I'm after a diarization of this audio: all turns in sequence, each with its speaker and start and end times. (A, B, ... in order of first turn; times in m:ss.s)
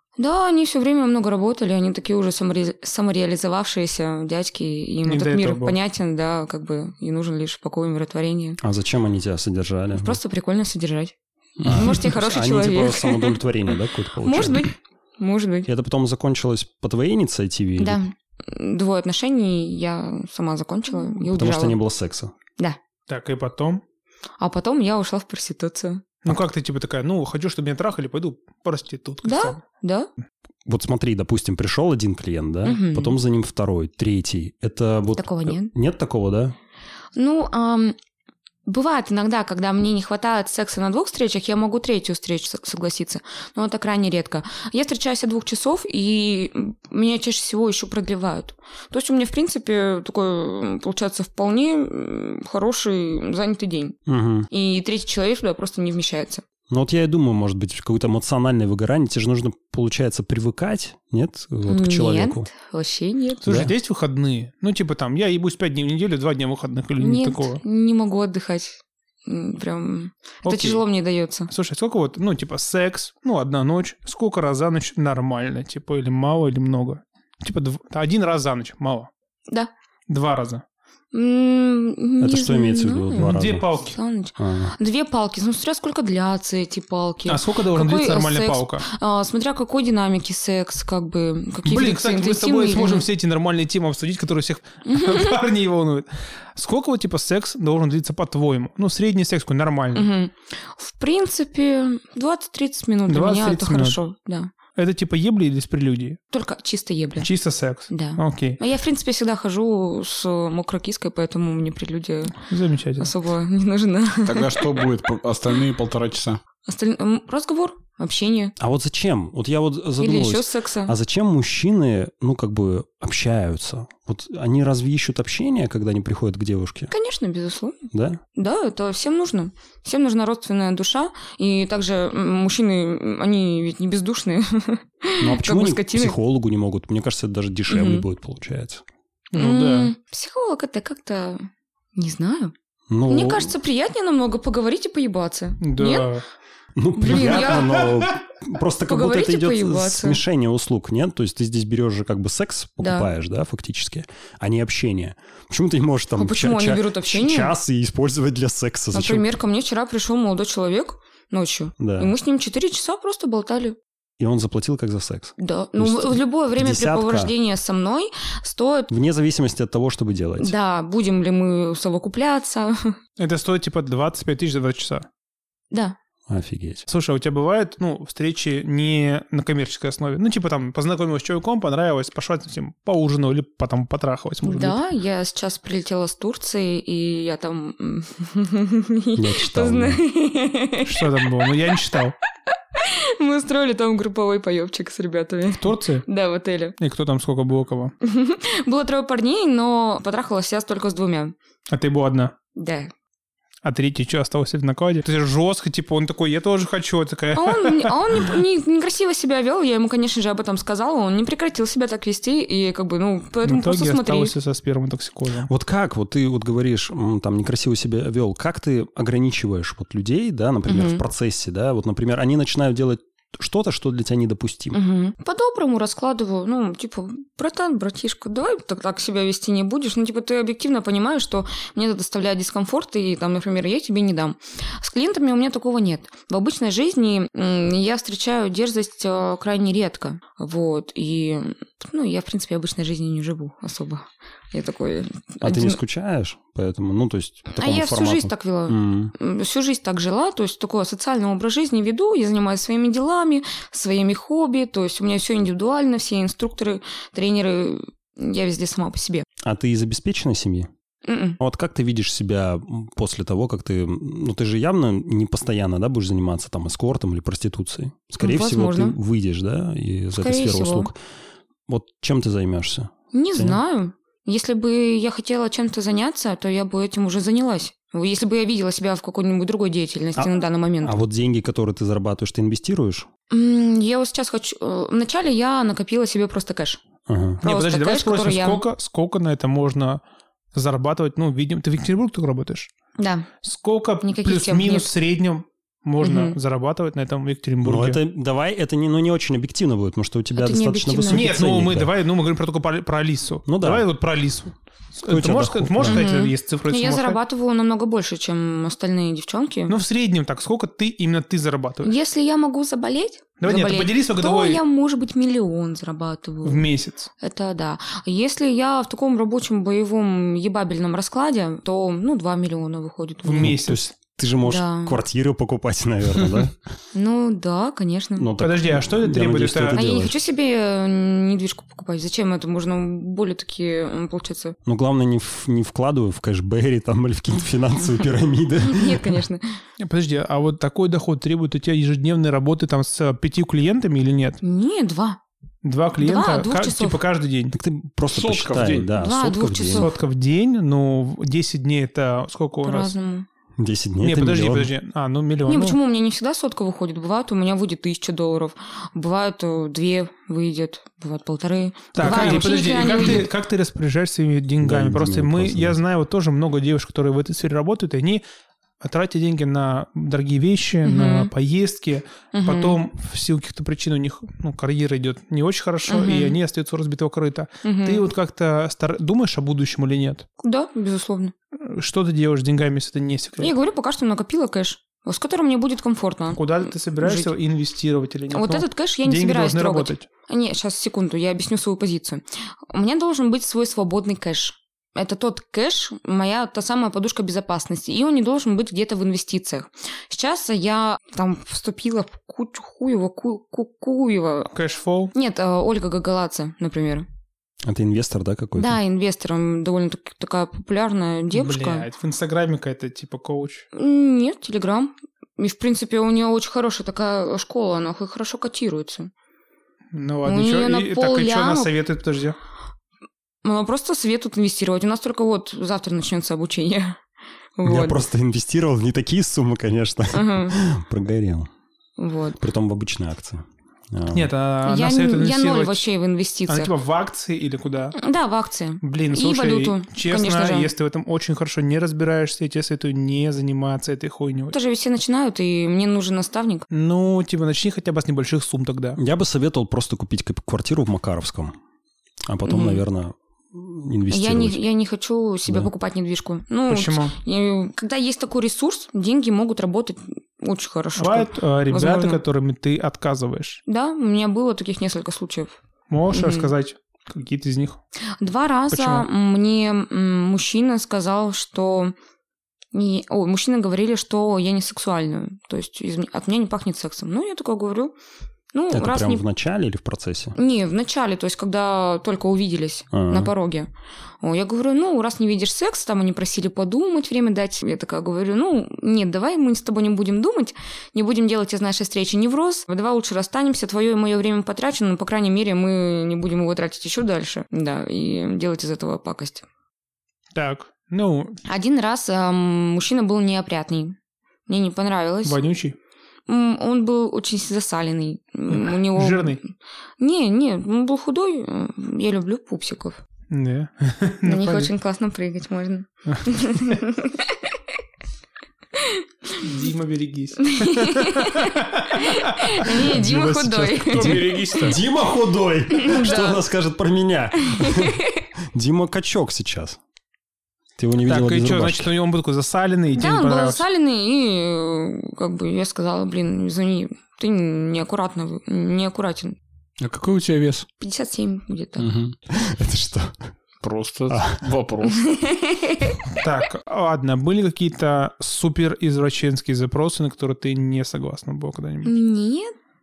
0:00.2-0:08.6 A
0:05.0-0:05.8 B
0:08.6-0:10.2 C
0:09.9-0:11.1 A
0:11.6-0:11.9 D
0:11.6-0:14.7 C
0:11.6-0:15.7 A
0:15.6-0:18.0 C
0:17.8-0:21.8 A
0:21.3-0:22.3 C
0:23.1-0:23.8 B
0:24.4-0:26.1 A
0:26.2-0:29.6 B
0:29.2-0:30.1 A
0:30.6-0:36.5 C
0:32.6-0:33.2 A
0:35.2-0:35.7 A
0:37.1-0:38.0 A
0:38.6-0:54.0 A
0:54.1-0:54.5 C
0:54.5-0:56.4 A
0:56.7-1:02.5 C
1:01.7-1:03.4 A
1:03.4-1:07.6 B
1:03.4-1:03.7 C
1:07.0-1:11.5 A
1:10.4-1:10.8 B
1:11.5-1:19.1 B
1:20.1-1:20.6 B
1:21.1-1:33.1 A
1:22.2-1:23.6 C
1:23.2-1:24.0 B
1:24.4-1:24.7 C
1:27.3-1:28.8 B
1:31.6-1:40.1 B
1:34.8-1:35.4 A
1:39.9-1:44.5 A
1:43.1-1:44.0 B
1:44.7-1:46.2 B
1:46.3-1:47.3 A
1:47.2-1:48.6 B
1:47.9-1:52.4 A
1:52.4-1:53.1 B
1:53.0-1:54.6 A
1:54.2-1:56.4 D
1:56.6-1:58.5 A
1:58.6-2:06.9 C
2:00.0-2:00.9 A
2:06.9-2:07.8 A
2:07.9-2:08.2 C
2:08.3-2:16.2 A
2:15.2-2:18.8 C
2:17.7-2:18.0 A
2:19.3-2:19.9 B
2:19.3-2:22.5 A
2:22.9-2:23.5 C
2:23.1-2:26.1 A
2:25.6-2:26.2 B
2:26.7-2:39.2 C
2:27.0-2:27.9 A
2:27.1-2:28.0 B
2:28.9-2:30.2 A
2:32.8-2:33.1 A
2:36.2-2:37.5 A
2:38.9-2:43.8 A
2:41.8-2:42.1 C
2:44.2-2:47.3 C
2:45.4-2:48.9 A
2:48.9-2:50.5 C
2:50.4-2:53.0 A
2:53.2-2:55.1 B
2:55.7-2:56.0 A
2:56.3-2:56.8 C
2:56.9-3:04.8 B
3:04.4-3:11.1 A
3:09.1-3:10.0 C
3:10.8-3:12.2 B
3:12.7-3:16.8 A
3:15.5-3:16.0 B
3:16.8-3:17.9 B
3:18.0-3:21.3 A
3:21.7-3:22.3 B
3:22.5-3:22.9 A
3:23.6-3:28.3 B
3:27.3-3:34.3 A
3:33.4-3:35.5 B
3:35.4-3:44.8 C
3:40.7-3:41.0 A
3:44.7-4:05.8 A
4:05.4-4:09.1 C
4:07.5-4:19.2 A
4:19.4-4:20.7 C
4:21.0-4:21.4 A
4:21.4-4:31.0 C
4:28.2-4:29.0 A
4:30.1-4:30.9 A
4:31.7-4:33.6 C
4:33.1-4:41.0 A
4:40.2-4:43.1 C
4:43.3-4:46.8 A
4:47.0-4:47.4 C
4:47.4-4:48.6 A
4:47.4-4:50.0 B
4:50.5-4:52.7 B
4:53.0-4:53.3 A
4:53.4-4:58.0 B
4:54.0-4:54.9 A
4:56.0-4:56.4 A
4:57.6-5:01.9 C
5:00.4-5:01.4 A
5:01.1-5:07.2 B
5:03.4-5:03.8 C
5:05.1-5:06.0 C
5:05.8-5:09.8 A
5:09.7-5:11.9 B
5:11.8-5:16.7 A
5:13.4-5:14.6 B
5:16.4-5:17.1 B
5:17.2-5:23.6 A
5:23.2-5:23.9 B
5:23.4-5:26.6 C
5:24.4-5:25.0 A
5:26.9-5:28.3 A
5:28.2-5:30.2 C
5:28.4-5:29.8 B
5:29.7-5:34.6 A
5:34.6-5:39.2 C
5:38.6-5:39.6 A
5:39.8-5:44.4 B
5:44.4-5:45.2 A
5:45.6-5:47.6 B
5:46.0-5:47.0 A
5:47.5-5:49.9 C
5:48.1-5:48.9 D
5:48.9-5:50.0 A
5:49.7-5:52.9 B
5:52.6-5:53.3 A
5:53.6-5:54.7 C
5:54.0-5:55.8 B
5:55.5-6:03.3 A
6:01.9-6:08.2 B
6:04.6-6:05.8 C
6:08.8-6:20.2 B
6:10.8-6:11.3 A
6:12.3-6:12.8 A
6:15.9-6:16.4 A
6:17.6-6:18.0 A
6:20.4-6:21.3 A
6:21.6-6:23.5 B
6:23.4-6:27.3 A
6:26.3-6:30.0 B
6:28.3-6:44.5 A
6:44.5-6:45.1 B
6:45.1-6:47.0 A
6:47.6-6:48.8 C
6:48.6-6:51.8 A
6:51.3-6:53.6 B
6:53.7-6:59.1 A
6:59.9-7:02.4 B
7:00.2-7:01.7 A
7:03.4-7:07.0 A
7:07.6-7:08.0 A
7:07.6-7:11.5 C
7:10.1-7:10.6 A
7:12.0-7:12.4 A
7:12.4-7:14.3 C
7:14.1-7:15.8 B
7:14.6-7:16.7 A
7:16.5-7:18.0 B
7:17.9-7:20.7 A
7:18.8-7:24.5 B
7:24.5-7:26.6 A
7:26.7-7:29.0 B
7:29.0-7:31.5 C
7:32.3-7:34.6 C
7:32.4-7:32.8 A
7:34.1-7:42.2 A
7:36.7-7:37.2 B
7:41.0-7:43.6 B
7:43.7-7:45.5 A
7:45.9-7:47.8 B
7:46.1-7:46.5 A
7:48.2-7:51.9 A
7:48.7-7:49.1 B
7:52.7-7:57.9 A
7:58.5-7:59.2 A
7:58.7-8:00.3 C
8:00.4-8:03.7 A
8:02.9-8:03.3 C
8:04.2-8:19.4 A
8:20.3-8:21.4 B
8:21.4-8:24.0 A
8:24.5-8:25.4 A
8:25.2-8:25.8 B
8:26.3-8:29.4 A
8:28.5-8:29.4 B
8:30.0-8:33.0 A
8:33.3-8:34.7 B
8:34.2-8:37.4 A
8:36.1-8:36.8 B
8:38.7-8:39.4 A
8:39.4-8:43.0 B
8:40.4-8:44.6 A
8:42.8-8:49.8 C
8:43.9-8:44.8 D
8:45.7-8:46.4 A
8:47.4-8:48.2 A
8:50.8-8:51.9 C
8:51.0-8:53.6 B
8:52.9-8:59.4 A
8:59.8-9:00.7 D
9:00.8-9:01.9 A
9:01.8-9:02.1 D
9:02.3-9:03.2 C
9:03.6-9:05.0 D
9:04.1-9:04.4 C
9:04.8-9:06.0 A
9:06.1-9:11.9 B
9:11.8-9:12.5 A